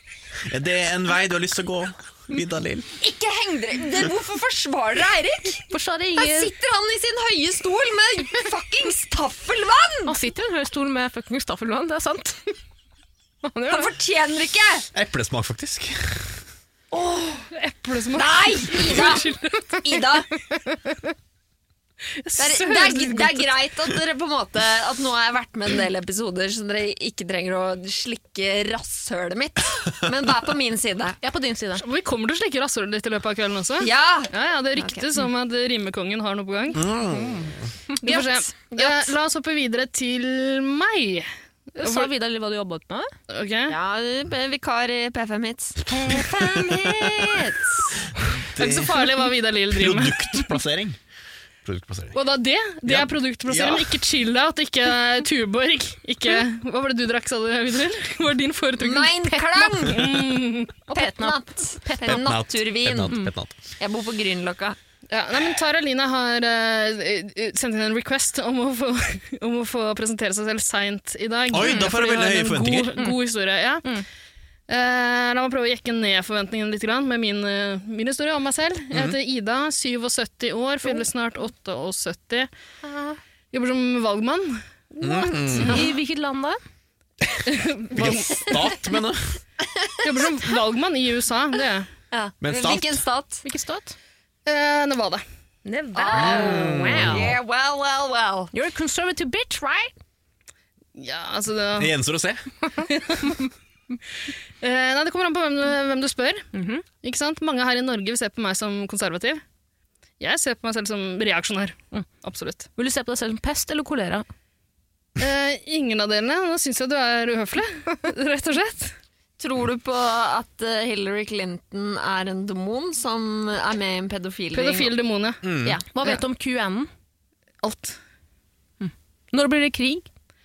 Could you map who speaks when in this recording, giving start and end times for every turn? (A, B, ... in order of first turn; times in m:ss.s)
0:00.5-0:02.9 A
0:03.0-0:10.1 B
0:05.7-0:06.5 C
0:10.0-0:12.5 C
0:13.4-0:13.9 C
0:13.7-0:14.8 B
0:14.9-0:16.4 A
0:16.9-0:17.4 B
0:17.5-0:20.0 D
0:18.1-0:20.4 B
0:22.2-0:23.5 D
0:22.4-0:31.2 B
0:31.2-0:31.8 C
0:31.8-0:36.8 D
0:33.8-0:35.1 B
0:36.7-0:37.7 A
0:38.0-0:41.3 D
0:38.0-0:39.1 B
0:41.8-0:43.1 C
0:41.8-0:42.1 D
0:43.3-0:43.7 D
0:43.7-0:47.9 B
0:45.9-0:47.2 A
0:48.1-0:51.0 A
0:48.6-0:50.5 D
0:51.6-0:52.2 A
0:52.1-0:59.1 D
0:52.8-0:54.0 A
0:58.8-1:00.3 B
0:59.3-0:59.7 C
0:59.8-1:00.7 D
1:00.9-1:02.4 C
1:00.9-1:03.2 B
1:02.0-1:03.6 A
1:03.0-1:03.3 C
1:03.8-1:04.8 B
1:05.1-1:13.8 D
1:11.5-1:12.9 A
1:14.7-1:22.5 D
1:18.9-1:19.2 A
1:23.5-1:25.8 D
1:25.0-1:25.8 A
1:25.4-1:26.6 C
1:27.5-1:28.5 D
1:27.9-1:29.4 A
1:28.3-1:28.5 B
1:30.0-1:31.9 D
1:32.1-1:33.4 B
1:32.4-1:33.0 A
1:33.4-1:33.9 C
1:34.4-1:35.2 D
1:35.6-1:37.2 C
1:35.9-1:38.5 B
1:36.2-1:37.3 A
1:38.5-1:39.9 C
1:41.0-1:41.9 D
1:41.8-1:42.4 A
1:42.9-1:43.4 D
1:44.6-1:46.5 D
1:46.5-1:46.8 C
1:47.0-1:49.4 D
1:50.2-1:52.7 D
1:52.8-1:54.2 C
1:55.2-1:58.9 D
1:59.4-2:04.9 B
2:04.5-2:05.4 D
2:05.4-2:05.8 A
2:05.6-2:06.9 C
2:07.6-2:08.0 D
2:08.8-2:10.1 C